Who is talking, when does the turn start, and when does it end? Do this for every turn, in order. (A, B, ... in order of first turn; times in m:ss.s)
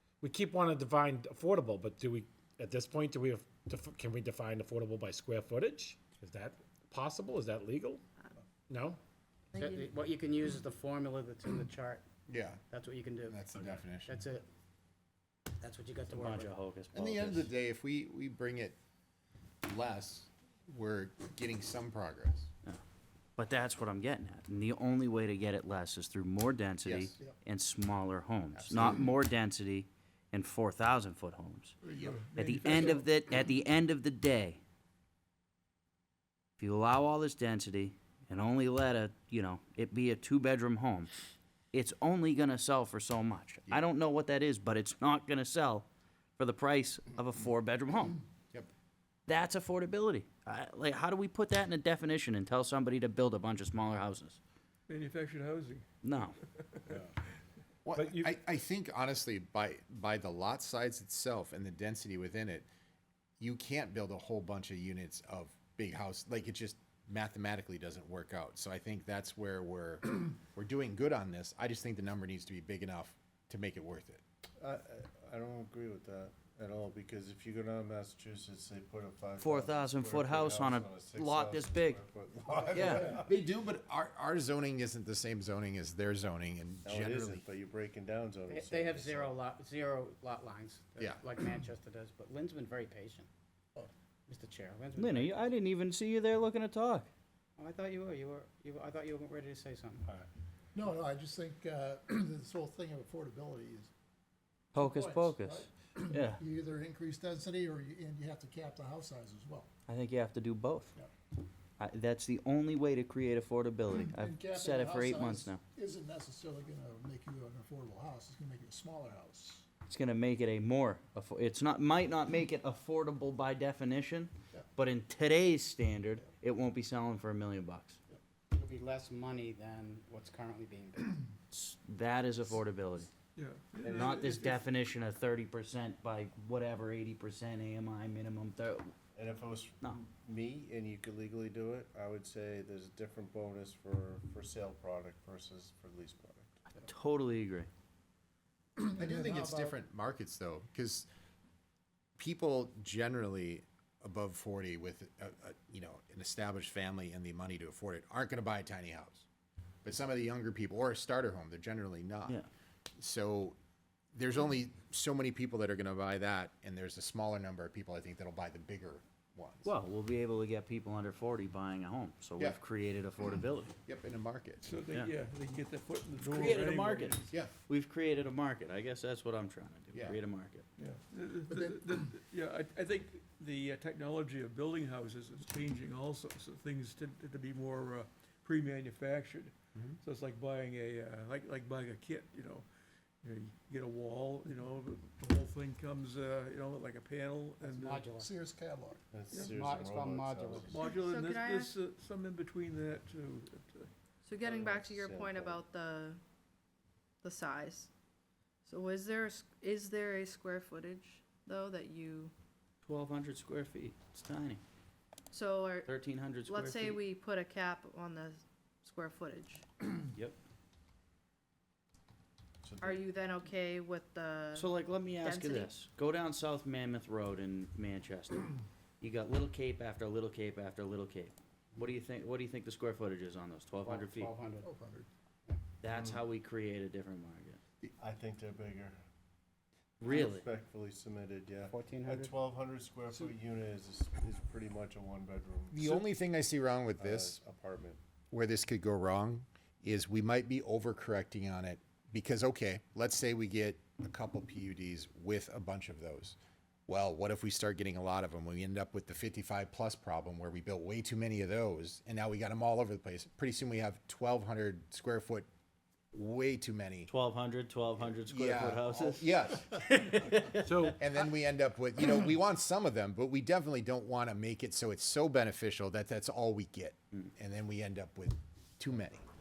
0:00.2-0:08.0 A
0:08.7-0:09.0 A
0:09.6-0:09.8 B
0:09.6-0:12.0 C
0:12.3-0:12.6 D
0:12.7-0:14.5 C
0:13.3-0:14.1 D
0:15.6-0:16.6 C
0:16.1-0:17.5 E
0:16.9-0:18.8 D
0:19.6-0:22.5 D
0:23.4-0:31.8 E
0:26.8-0:27.2 D
0:28.5-0:29.1 D
0:31.8-0:33.1 F
0:32.4-0:34.6 E
0:36.6-0:41.1 E
0:41.7-0:45.8 E
0:46.4-0:48.2 E
0:49.3-0:54.4 E
0:54.9-0:55.9 F
0:56.0-0:56.4 E
0:56.4-0:57.1 F
0:57.8-1:02.7 D
0:58.0-0:58.3 A
1:03.4-1:14.2 D
1:14.6-1:23.2 G
1:19.4-1:22.0 E
1:22.5-1:27.4 D
1:26.8-1:29.3 G
1:28.5-1:33.3 C
1:34.3-1:35.5 C
1:35.0-1:37.1 E
1:37.6-1:40.1 C
1:40.7-1:43.9 H
1:44.8-1:45.6 E
1:44.8-1:49.7 H
1:46.1-1:46.4 E
1:49.9-1:50.9 E
1:51.8-1:55.6 E
1:54.1-1:59.6 H
1:59.9-2:08.0 E
2:08.5-2:11.2 C
2:11.5-2:13.1 E
2:13.4-2:14.6 F
2:13.8-2:14.4 G
2:14.0-2:18.9 E
2:19.2-2:26.6 G
2:26.8-2:27.7 E
2:28.8-2:29.8 H
2:29.0-2:31.1 D
2:32.2-2:39.2 D
2:39.8-2:42.4 D
2:43.0-2:43.6 D
2:44.2-2:49.7 D
2:49.6-2:53.7 E
2:53.9-2:54.6 D
2:54.6-2:57.4 F
2:56.3-3:00.6 E
2:59.9-3:00.2 D
3:00.8-3:12.7 F
3:01.5-3:01.8 H
3:13.2-3:18.1 F
3:17.6-3:18.3 C
3:18.2-3:19.0 H
3:19.1-3:20.8 G
3:19.3-3:20.8 C
3:20.7-3:23.9 F
3:20.8-3:21.7 B
3:24.2-3:26.2 B
3:24.4-3:25.6 G
3:27.2-3:27.9 B
3:28.6-3:32.3 B
3:32.8-3:34.6 E
3:35.3-3:35.9 B
3:35.9-3:37.0 E
3:36.4-3:39.7 B
3:42.6-3:43.1 G
3:42.8-3:45.7 B
3:44.6-3:48.5 E
3:49.0-3:54.3 E
3:53.8-3:54.7 C
3:54.6-3:55.1 H
3:55.8-3:57.6 E
3:55.9-3:56.3 G
3:58.0-3:59.0 G
4:00.0-4:00.4 C
4:00.0-4:06.0 G
4:00.1-4:00.4 E
4:01.7-4:02.4 C
4:05.7-4:07.4 D
4:07.0-4:08.0 G
4:08.3-4:25.5 D
4:26.1-4:27.1 D
4:27.1-4:30.6 E
4:28.1-4:29.8 D
4:30.6-4:31.1 A
4:31.0-4:39.2 D